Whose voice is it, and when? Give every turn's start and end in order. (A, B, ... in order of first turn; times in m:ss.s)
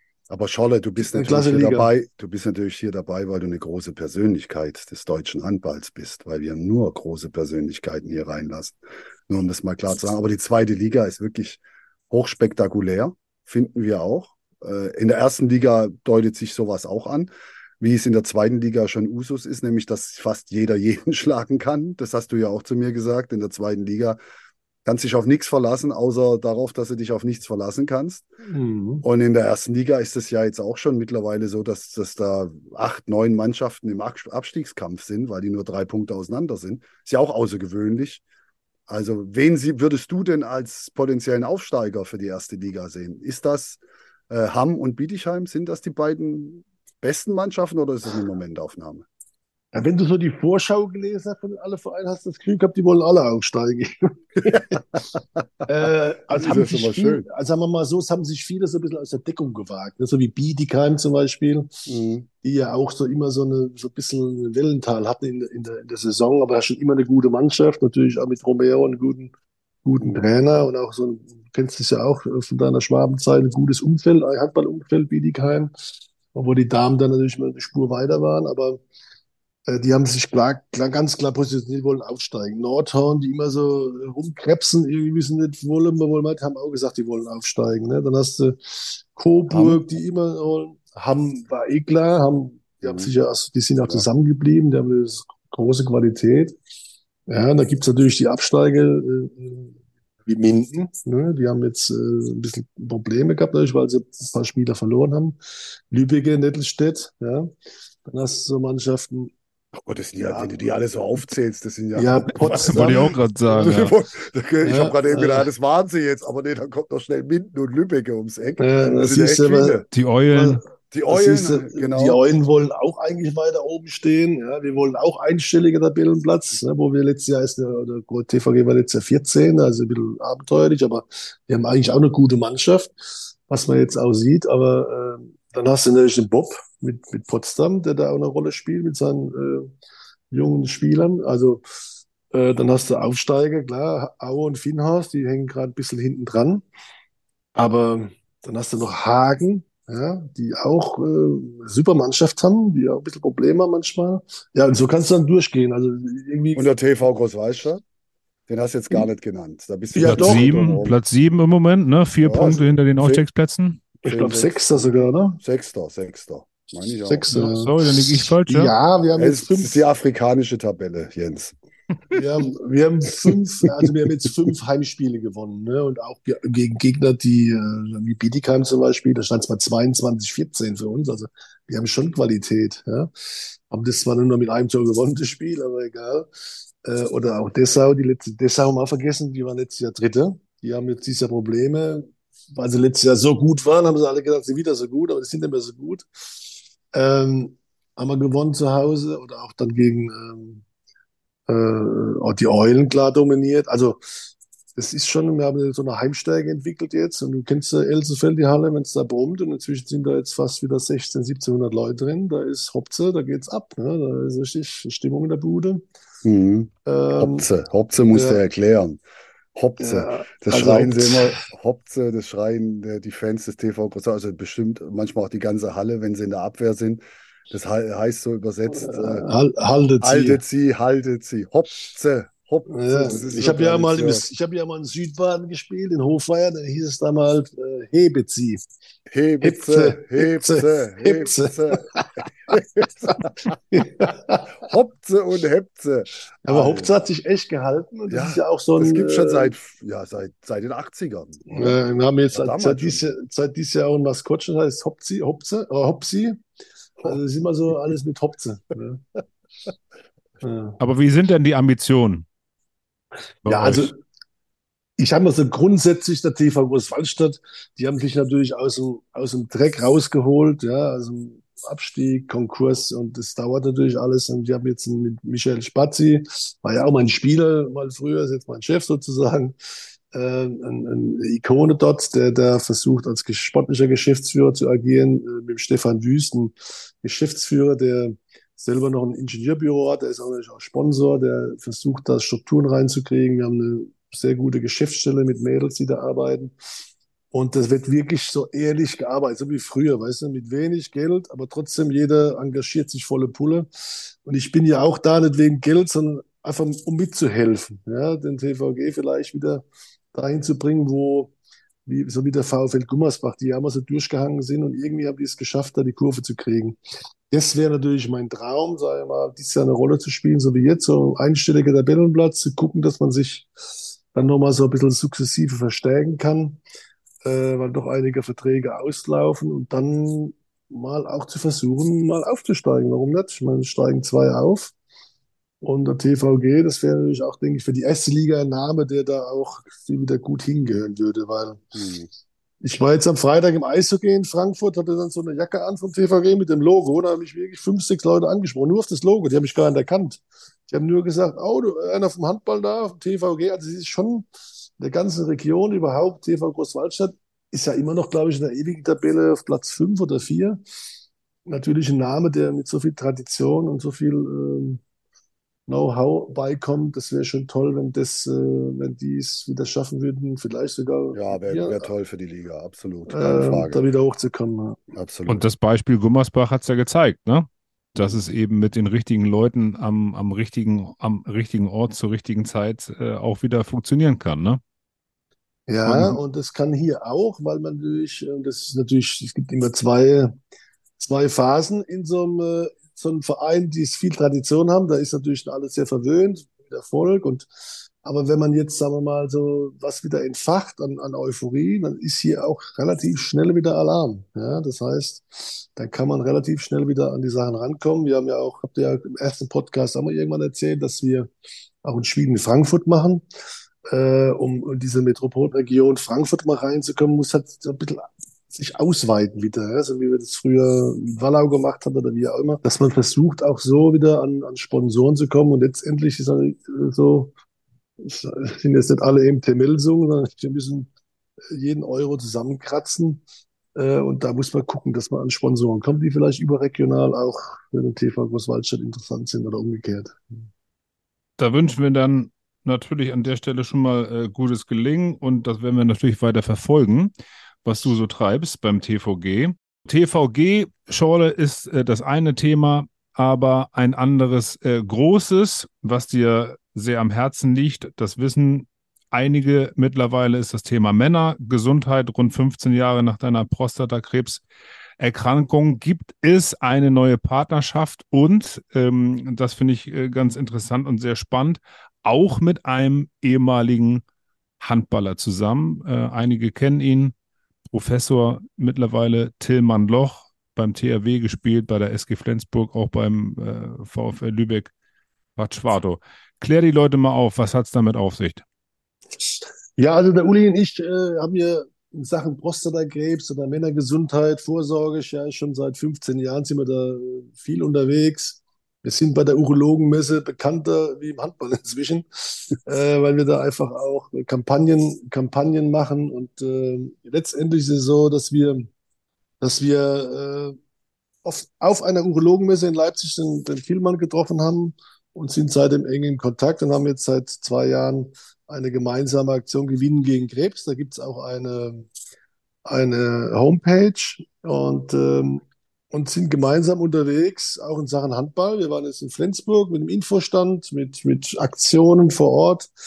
0:00.3-0:08.8 A
0:01.1-0:01.9 B
0:09.3-0:24.2 A
0:24.8-0:28.3 A
0:28.4-0:29.0 B
0:29.0-0:38.2 A
0:38.9-0:49.0 A
0:49.7-0:54.8 B
0:54.4-0:55.6 A
0:55.7-1:01.7 B
0:56.3-0:57.2 A
1:01.9-1:02.3 A
1:02.4-1:09.3 B
1:09.8-1:15.7 B
1:16.3-1:18.8 B
1:19.7-1:36.5 B
1:29.5-1:29.8 A
1:32.8-1:33.1 A
1:37.3-1:47.5 B
1:48.0-1:49.3 B
1:49.7-1:59.9 A
1:51.9-1:53.1 B
1:52.4-1:53.9 C
1:54.6-1:55.5 B
1:58.6-1:59.8 B
1:59.9-2:00.6 C
2:00.3-2:12.9 B
2:00.9-2:02.2 A
2:13.5-2:19.7 B
2:20.3-2:21.6 B
2:22.3-2:26.6 B
2:27.5-2:36.7 B
2:36.5-2:37.8 A
2:38.5-2:40.9 A
2:39.9-2:40.5 B
2:40.0-2:43.8 C
2:42.2-2:43.2 A
2:44.0-2:44.8 A
2:44.0-2:45.4 B
2:45.4-2:47.3 A
2:47.1-2:49.7 B
2:47.3-2:48.7 C
2:49.2-2:51.5 A
2:52.1-3:06.3 B
3:06.8-3:16.0 B
3:16.9-3:20.6 B
3:21.5-3:35.8 B
3:36.2-3:39.0 A
3:36.8-3:37.5 B
3:38.1-3:38.4 B
3:39.5-3:49.3 A
3:39.8-3:41.4 B
3:48.8-3:50.4 B
3:50.0-3:54.2 A
3:52.7-3:58.6 B
3:59.1-4:01.8 A
3:59.4-4:02.2 B
4:02.5-4:04.0 A
4:03.1-4:04.6 B
4:04.6-4:06.9 A
4:06.4-4:09.5 B
4:08.1-4:11.8 A
4:11.5-4:16.4 B
4:12.3-4:13.0 A
4:17.0-4:19.0 B
4:20.4-4:20.8 B
4:20.8-4:22.2 C
4:23.4-4:23.9 C
4:23.4-4:24.0 B
4:25.0-4:39.5 B
4:40.1-4:56.5 B
4:57.3-5:11.3 B
5:11.8-5:16.8 B
5:17.3-5:23.5 B
5:24.1-5:26.6 B
5:27.2-5:34.7 B
5:35.6-5:41.7 B
5:41.7-5:42.1 A
5:42.6-5:54.3 B
5:54.8-6:00.6 B
6:01.5-6:04.8 B
6:05.7-6:11.9 B
6:11.1-6:13.8 A
6:13.1-6:14.8 B
6:14.9-6:15.4 A
6:15.3-6:24.6 C
6:25.7-6:30.3 B
6:25.8-6:26.2 C
6:31.0-6:37.5 B
6:38.0-6:51.3 B
6:51.8-6:53.2 B
6:53.9-7:07.3 B
7:08.0-7:10.9 B
7:11.5-7:13.2 B
7:13.8-7:20.4 B
7:21.4-7:27.1 C
7:27.6-7:44.4 C
7:45.0-7:54.0 C
7:54.6-7:57.1 C
7:57.7-8:04.7 C
8:05.4-8:08.4 C
8:09.8-8:28.7 B
8:29.4-8:30.6 B
8:31.2-8:41.9 B
8:42.6-8:52.7 B